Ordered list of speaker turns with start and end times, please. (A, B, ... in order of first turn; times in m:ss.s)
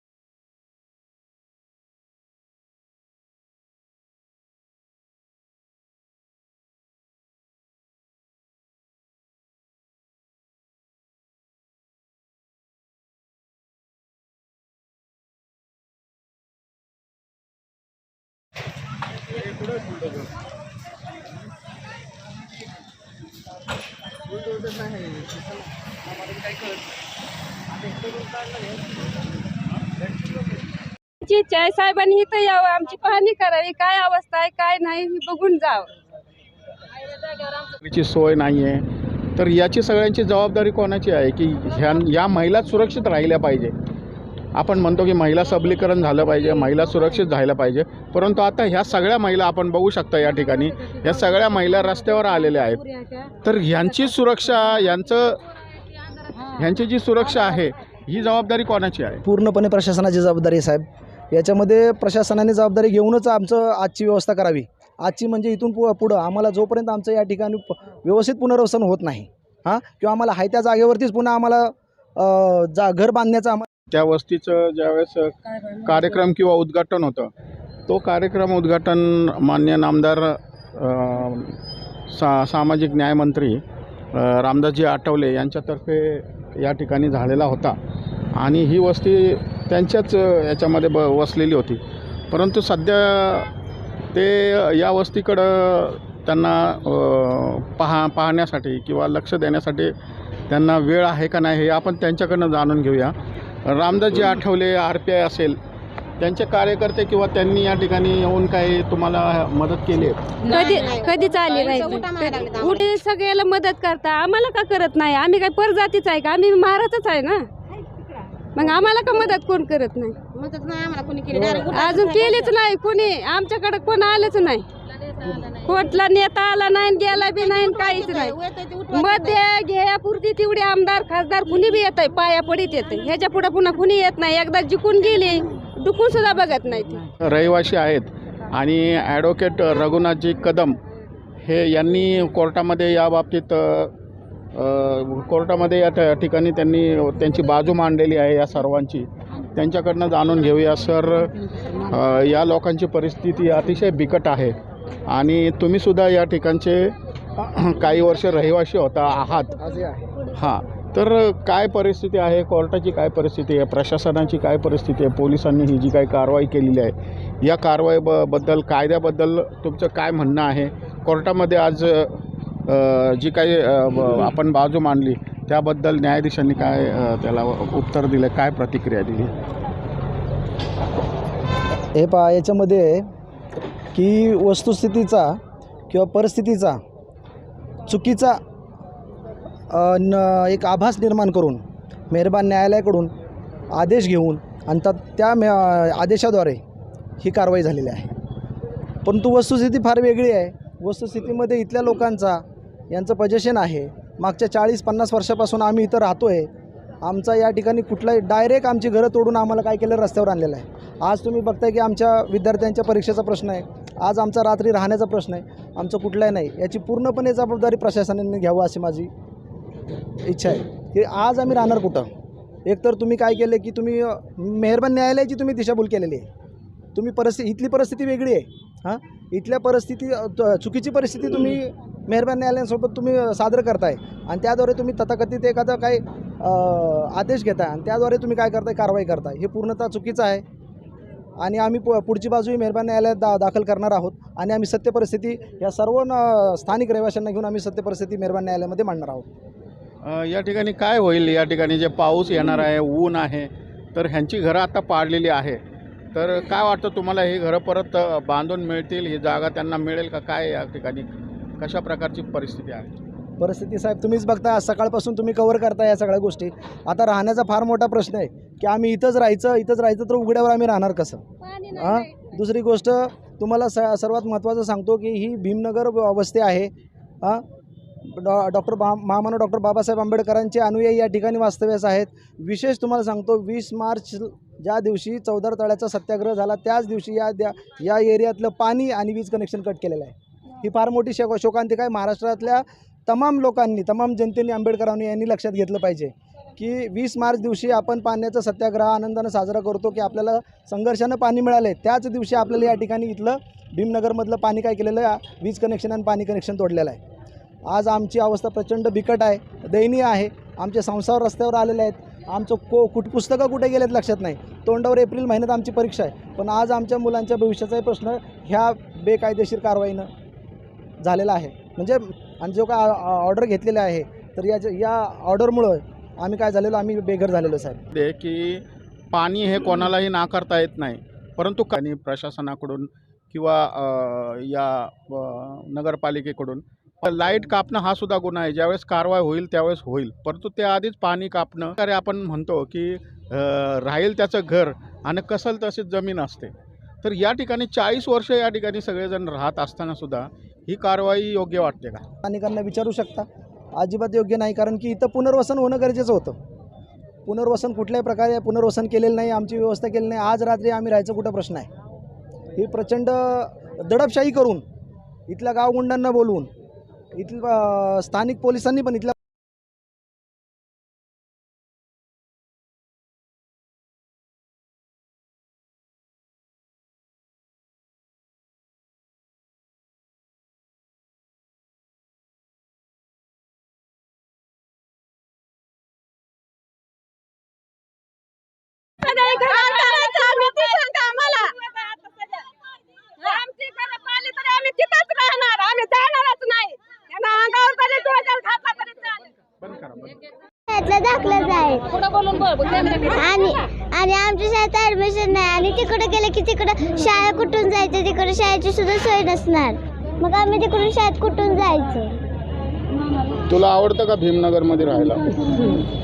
0:31.2-0:35.9 A
0:37.8-0:43.7 B
0:44.5-0:52.8 B
0:53.4-0:55.4 B
0:56.4-0:59.2 B
0:59.2-1:13.7 C
1:13.9-1:17.3 B
1:17.9-1:21.6 B
1:22.1-1:27.8 B
1:28.3-1:33.5 B
1:34.1-1:39.9 B
1:40.5-1:43.1 B
1:43.6-1:45.6 B
1:46.2-1:50.5 B
1:50.4-1:52.9 D
1:50.5-1:57.4 A
1:58.5-2:00.2 A
2:00.3-2:02.5 D
2:01.5-2:04.6 A
2:05.3-2:17.1 A
2:07.1-2:09.4 D
2:17.2-2:20.8 B
2:21.4-2:23.9 B
2:24.5-2:34.6 B
2:35.1-2:39.6 B
2:39.6-2:40.0 C
2:40.3-2:59.3 B
3:01.9-3:03.1 C
3:03.9-3:06.8 C
3:07.9-3:08.4 C
3:09.7-3:13.1 C
3:13.7-3:16.6 C
3:17.2-3:18.2 C
3:19.0-3:26.5 C
3:27.0-3:39.1 C
3:40.2-3:42.1 C
3:42.6-3:46.3 C
3:46.9-4:00.4 C
4:01.4-4:09.2 C
4:10.0-4:15.6 B
4:16.1-4:21.0 B
4:21.6-4:22.9 B
4:23.4-4:36.7 C
4:31.4-4:32.2 A
4:38.0-5:07.0 C
5:07.7-5:20.1 C
5:21.0-5:27.8 C
5:27.9-5:52.0 B
5:52.2-5:56.4 C
5:57.2-6:01.7 C
6:02.5-6:04.6 C
6:05.3-6:06.5 C
6:07.2-6:09.2 C
6:29.0-6:32.4 A
6:29.3-6:31.4 D
6:33.2-6:39.2 A
6:39.6-6:40.2 B
6:40.7-6:41.9 E
6:41.9-6:43.2 A
6:43.1-6:52.2 E
6:53.5-6:55.7 B